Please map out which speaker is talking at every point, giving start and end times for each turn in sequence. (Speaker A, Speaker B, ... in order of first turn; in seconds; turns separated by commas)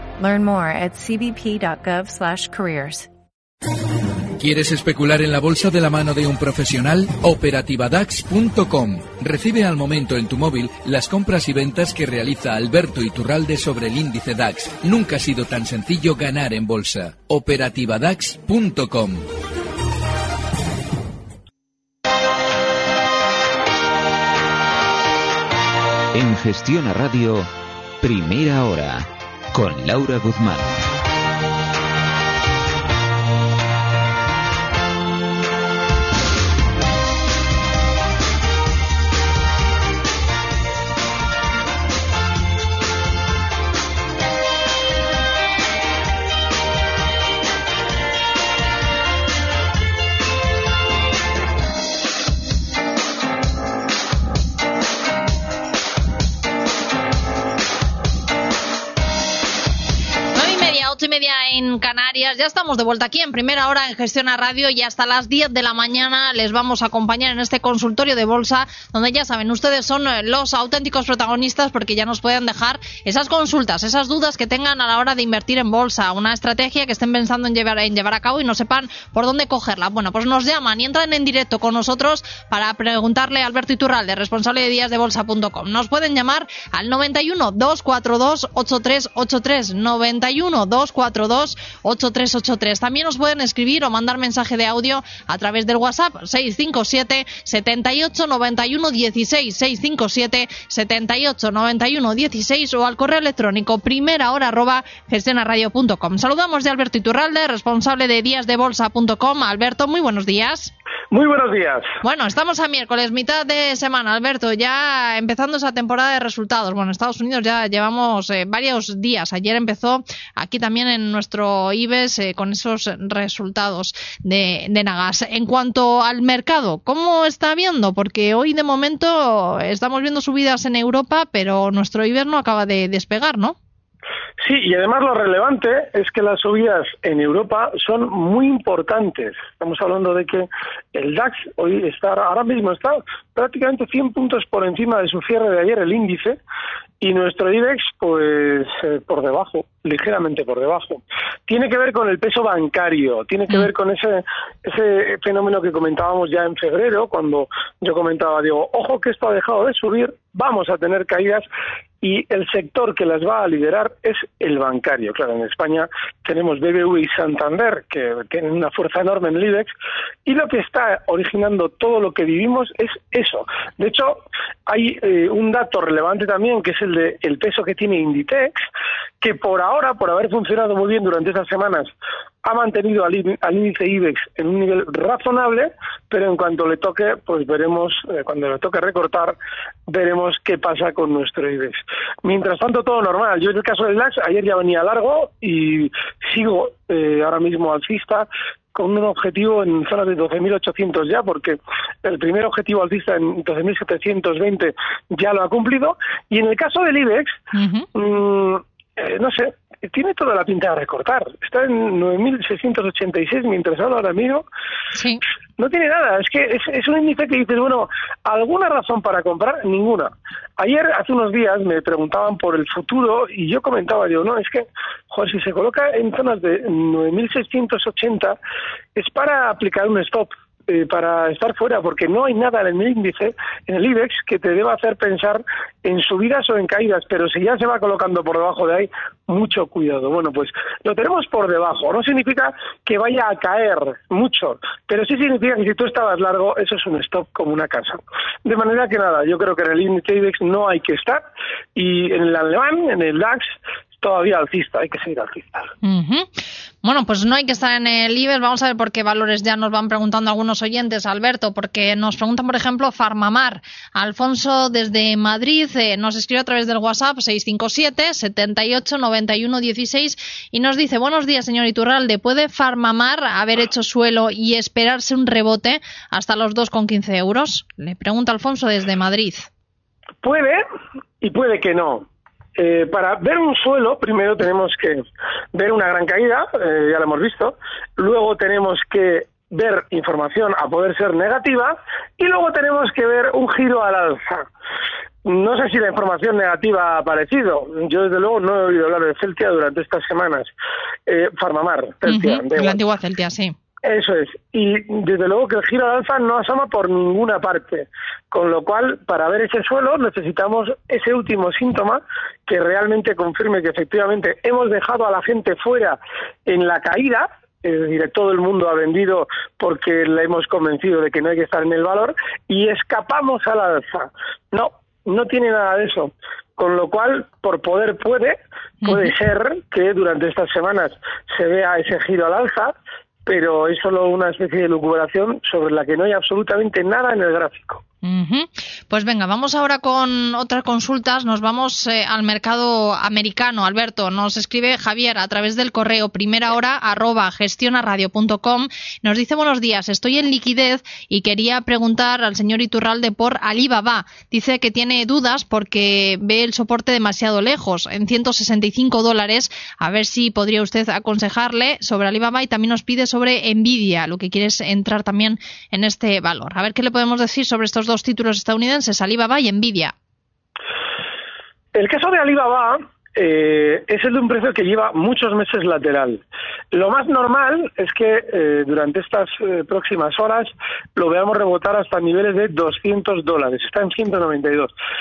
Speaker A: 0.2-3.1, Speaker B: 4.3-19.2, Speaker C: 26.1-30.8, Speaker D: 60.3-110.7, Speaker E: 111.1-111.9, Speaker D: 112.0-133.6, Speaker E: 134.4-146.4, Speaker E: 147.0-161.4, Speaker E: 162.0-169.7, Speaker E: 170.2-178.7, Speaker E: 179.2-181.9, Speaker E: 182.4-189.3, Speaker E: 189.9-207.4, Speaker D: 207.5-207.9, Speaker E: 207.9-214.4, Speaker D: 214.9-215.2, Speaker E: 215.6-228.4, Speaker E: 228.9-251.2, Speaker E: 251.7-255.7, Speaker D: 255.8-256.3, Speaker D: 256.8-279.5, Speaker E: 280.2-280.6, Speaker E: 281.2-282.1, Speaker E: 282.6-294.5, Speaker E: 295.2-300.5, Speaker E: 301.1-302.8, Speaker D: 302.1-303.6, Speaker E: 303.8-332.7, Speaker D: 328.8-329.1, Speaker E: 333.2-337.8, Speaker D: 338.0-369.9, Speaker E: 371.7-384.7